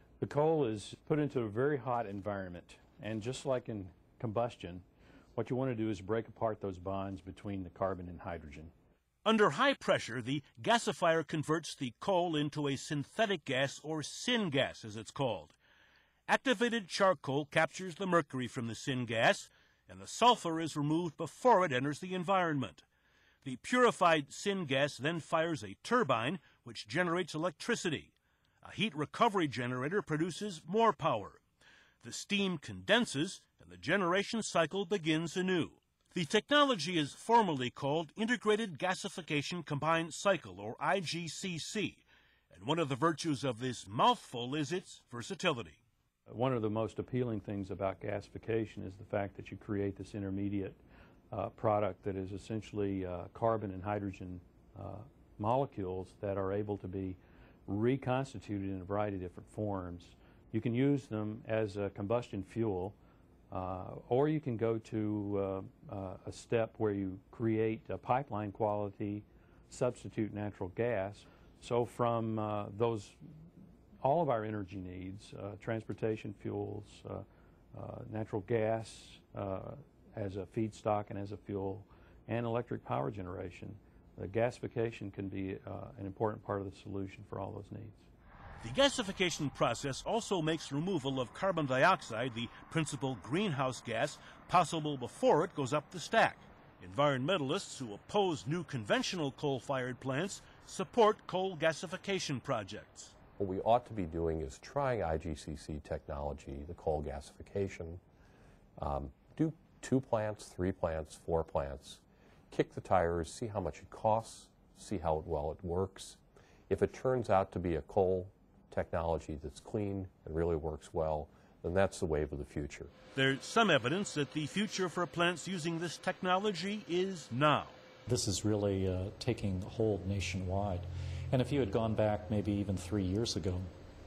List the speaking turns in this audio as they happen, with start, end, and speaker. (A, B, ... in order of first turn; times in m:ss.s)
0:00.2-0:04.8 A
0:05.4-0:08.7 A
0:09.2-0:15.6 B
0:16.3-0:22.8 B
0:23.4-0:28.1 B
0:28.6-0:31.4 B
0:32.0-0:45.8 B
0:46.3-0:50.8 A
0:51.3-1:03.0 A
1:03.5-1:13.2 A
1:14.0-1:28.0 A
1:28.6-1:43.1 B
1:43.4-1:48.0 C
1:48.8-2:02.9 C
2:03.2-2:07.8 B
2:08.1-2:13.7 D